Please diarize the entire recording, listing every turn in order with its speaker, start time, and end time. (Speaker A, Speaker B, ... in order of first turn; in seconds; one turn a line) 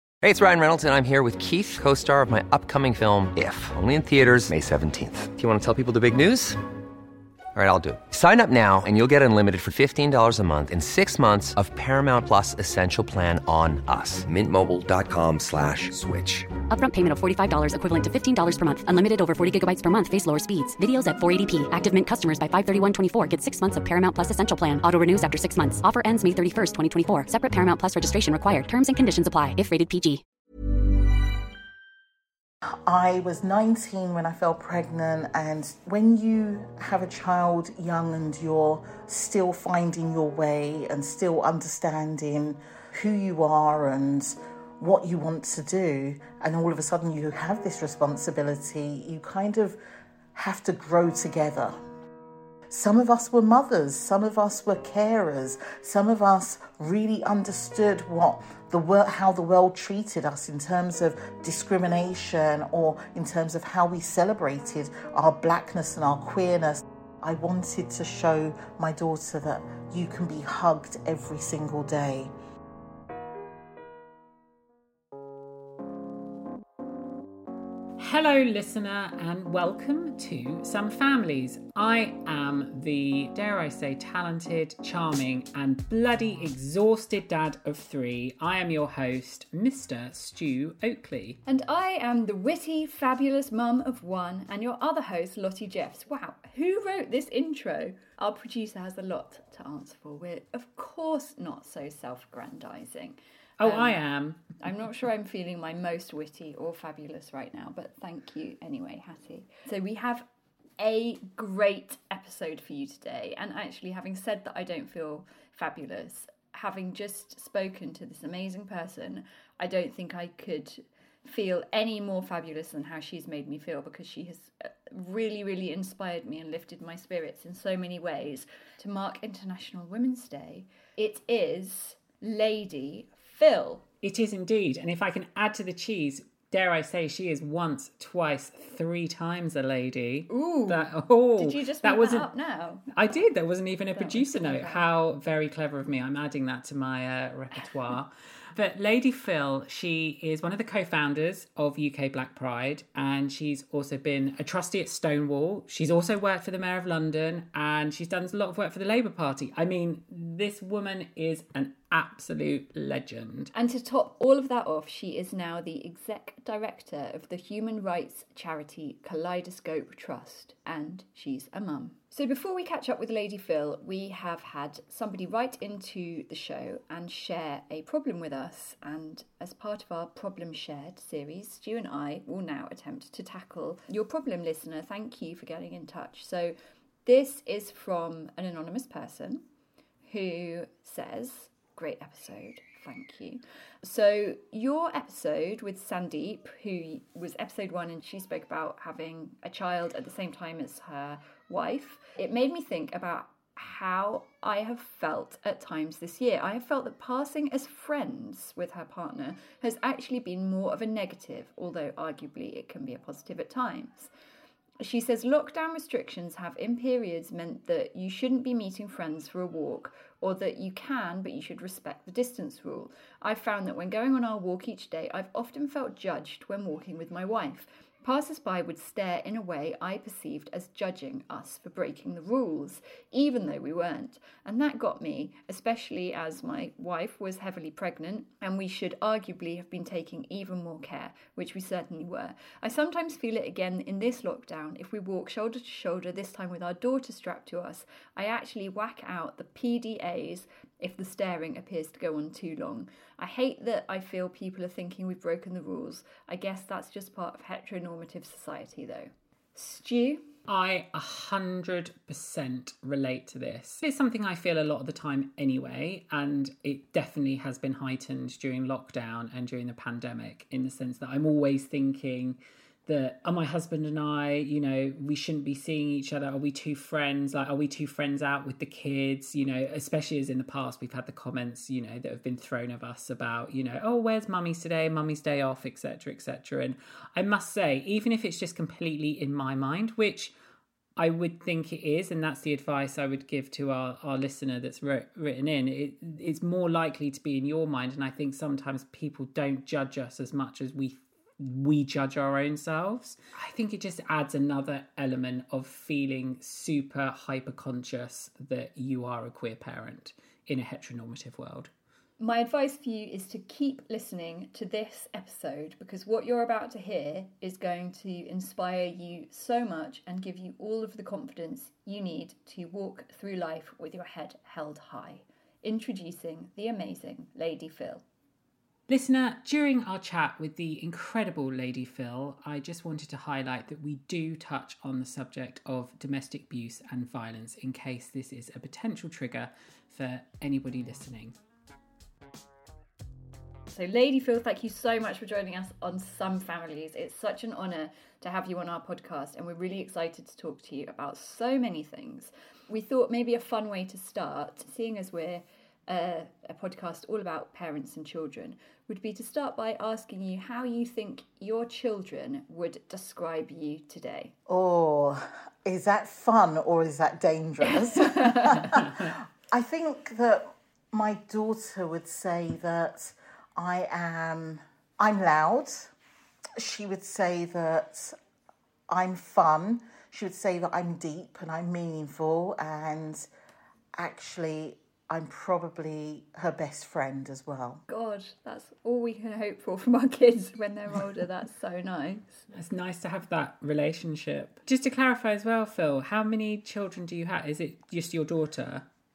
Speaker A: 0.2-6.6
Speaker A: 7.5-16.5
Speaker B: 16.7-30.2
Speaker C: 32.7-49.8
Speaker C: 50.3-51.8
Speaker C: 52.7-72.3
Speaker D: 78.0-91.4
Speaker E: 91.5-104.0
Speaker D: 103.6-104.5
Speaker E: 104.6-110.2
Speaker E: 110.8-133.8
Speaker D: 134.0-142.3
Speaker E: 140.3-142.9
Speaker D: 142.9-163.5
Speaker E: 143.9-144.8
Speaker E: 163.5-189.4
Speaker E: 190.0-214.1
Speaker E: 214.8-260.3
Speaker D: 260.5-290.3
Speaker D: 291.0-311.7
Speaker E: 312.2-328.0
Speaker D: 328.9-341.3
Speaker E: 343.7-364.3
Speaker C: 364.5-375.9
Speaker E: 367.9-368.6
Speaker C: 376.6-378.2
Speaker C: 378.9-383.3
Speaker C: 383.9-387.8
Speaker E: 387.9-392.4
Speaker D: 392.5-398.8